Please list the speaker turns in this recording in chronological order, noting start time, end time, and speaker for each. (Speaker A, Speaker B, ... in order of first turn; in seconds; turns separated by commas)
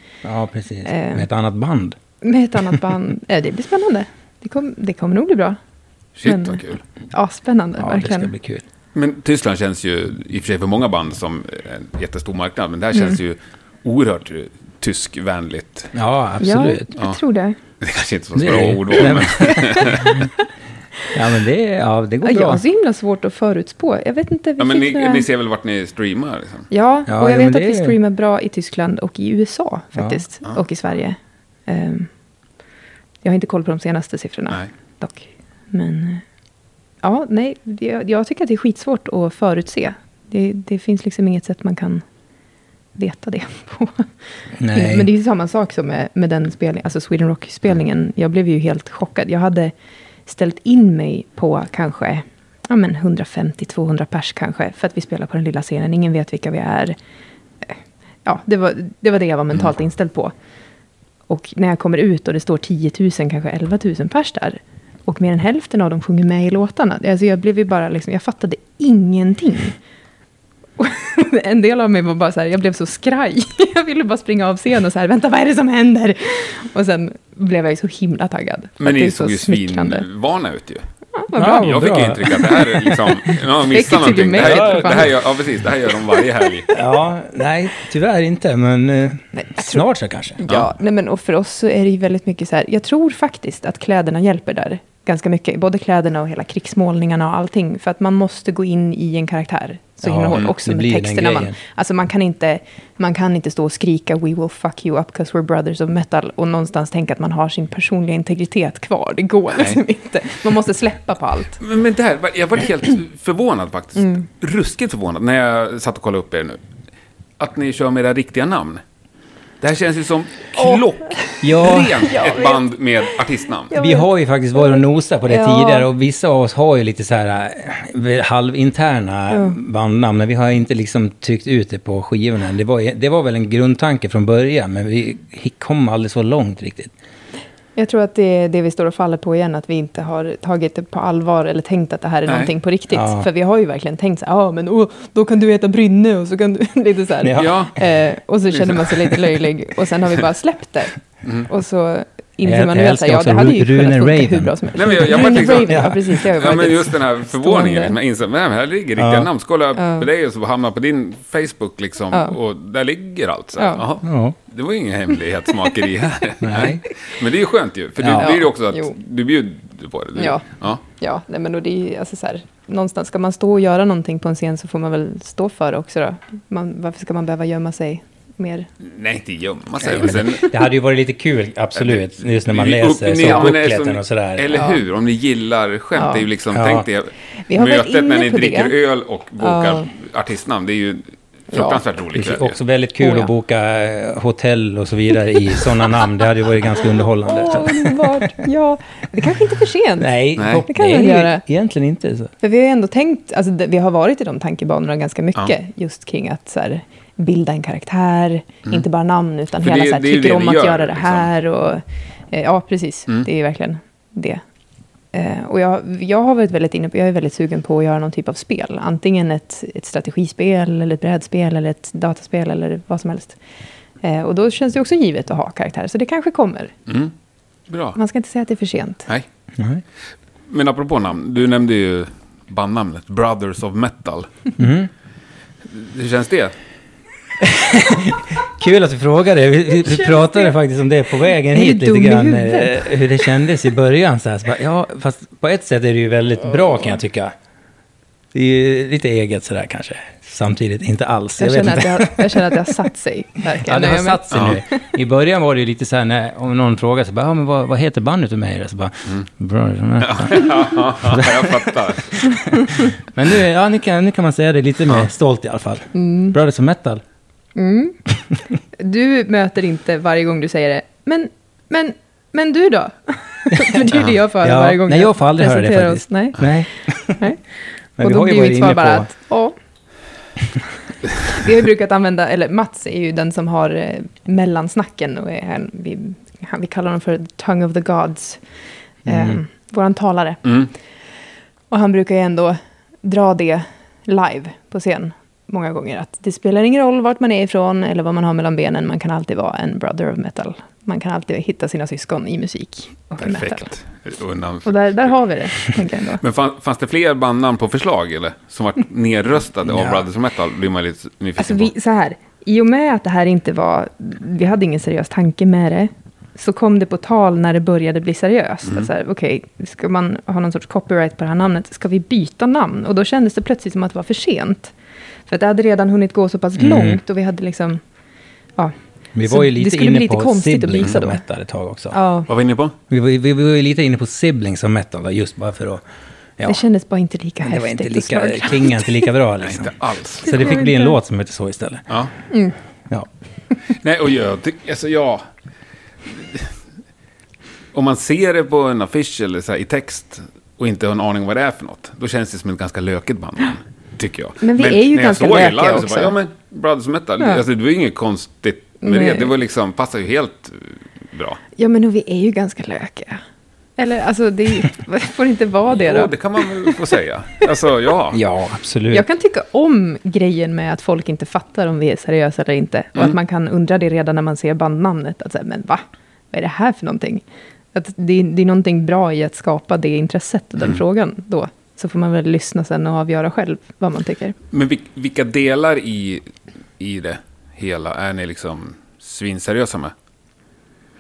Speaker A: 0.2-2.0, Speaker B: 0.9-1.3, Speaker B: 2.2-5.6, Speaker C: 6.2-6.8, Speaker B: 6.2-8.3, Speaker A: 7.8-8.7, Speaker C: 8.9-15.9, Speaker A: 15.9-16.9, Speaker B: 16.4-17.6, Speaker C: 17.8-20.2, Speaker A: 18.4-20.3, Speaker B: 19.5-20.2, Speaker A: 21.1-22.6, Speaker B: 22.2-25.3, Speaker C: 24.6-26.7, Speaker B: 26.7-32.1, Speaker A: 27.1-28.0, Speaker A: 30.0-30.2, Speaker B: 33.2-36.2, Speaker B: 37.0-42.0, Speaker B: 43.0-44.1, Speaker A: 44.6-45.1, Speaker B: 44.7-49.7, Speaker B: 50.3-57.0, Speaker B: 57.6-60.3, Speaker B: 61.3-69.8, Speaker B: 70.8-80.1, Speaker C: 78.8-80.8, Speaker B: 81.2-85.2, Speaker A: 81.3-82.3, Speaker C: 81.5-86.7, Speaker A: 84.4-85.1, Speaker A: 86.7-90.4, Speaker B: 89.3-89.8, Speaker B: 90.4-111.6, Speaker A: 100.0-101.6, Speaker C: 109.5-109.8, Speaker C: 111.6-116.6, Speaker B: 114.0-114.2, Speaker C: 117.4-118.8, Speaker C: 119.6-123.7, Speaker B: 120.6-121.3, Speaker A: 121.4-122.2, Speaker B: 122.0-122.7, Speaker B: 123.7-124.1, Speaker A: 123.7-136.9, Speaker B: 124.6-125.9, Speaker B: 129.3-129.6, Speaker B: 137.8-158.0, Speaker A: 142.9-143.3, Speaker A: 147.2-147.7, Speaker C: 147.3-147.8, Speaker A: 152.4-156.2, Speaker C: 154.7-170.8, Speaker A: 159.0-159.3, Speaker B: 159.8-160.1, Speaker B: 163.6-163.8, Speaker A: 164.0-164.4, Speaker A: 166.4-166.8, Speaker A: 168.0-168.3, Speaker B: 168.2-169.0, Speaker B: 170.2-178.7, Speaker C: 178.8-180.6, Speaker A: 179.9-184.6, Speaker C: 181.8-192.6, Speaker B: 184.5-184.8, Speaker B: 186.0-186.3, Speaker A: 186.5-186.9, Speaker B: 187.5-188.7, Speaker B: 189.4-189.9, Speaker B: 191.5-191.8, Speaker A: 192.1-198.3, Speaker B: 193.0-193.3, Speaker B: 197.2-201.4, Speaker A: 200.0-202.3, Speaker C: 200.4-200.7, Speaker B: 202.4-214.4, Speaker C: 209.6-211.3, Speaker B: 215.1-223.4, Speaker B: 224.0-226.7, Speaker C: 226.9-227.1, Speaker C: 227.7-228.0, Speaker B: 227.9-229.1, Speaker A: 229.6-229.8, Speaker C: 230.5-234.5, Speaker A: 234.6-234.9, Speaker C: 235.7-236.6, Speaker A: 237.4-247.3, Speaker B: 239.9-240.5, Speaker B: 241.5-243.0, Speaker A: 248.3-252.6, Speaker B: 251.4-254.6, Speaker A: 253.6-267.0, Speaker C: 254.3-254.6, Speaker C: 260.0-262.3, Speaker B: 262.6-262.8, Speaker B: 265.9-266.4, Speaker B: 267.6-268.0, Speaker B: 268.7-277.4, Speaker A: 274.4-277.3, Speaker A: 278.0-279.1, Speaker B: 278.0-279.6, Speaker B: 281.2-288.4, Speaker B: 289.1-290.5, Speaker A: 289.1-289.4, Speaker C: 290.4-290.7, Speaker B: 291.7-303.7, Speaker C: 303.2-305.1, Speaker B: 304.6-306.2, Speaker C: 306.2-311.7, Speaker A: 309.7-310.0, Speaker B: 311.4-324.7, Speaker B: 325.3-327.8, Speaker A: 326.6-327.0, Speaker B: 328.6-331.2, Speaker A: 329.1-331.9, Speaker B: 331.9-332.3, Speaker C: 332.3-332.8, Speaker A: 332.9-335.8, Speaker B: 336.4-339.1, Speaker A: 337.4-341.9, Speaker C: 339.4-340.4, Speaker B: 340.2-341.0, Speaker B: 342.3-342.6, Speaker C: 343.7-345.2, Speaker C: 346.1-346.5, Speaker C: 347.7-361.4, Speaker B: 354.4-356.1, Speaker B: 358.8-359.3, Speaker B: 361.6-363.2, Speaker B: 363.8-366.8, Speaker C: 365.8-368.2, Speaker A: 368.1-369.1, Speaker B: 368.9-384.4, Speaker C: 384.5-386.2, Speaker C: 386.8-389.9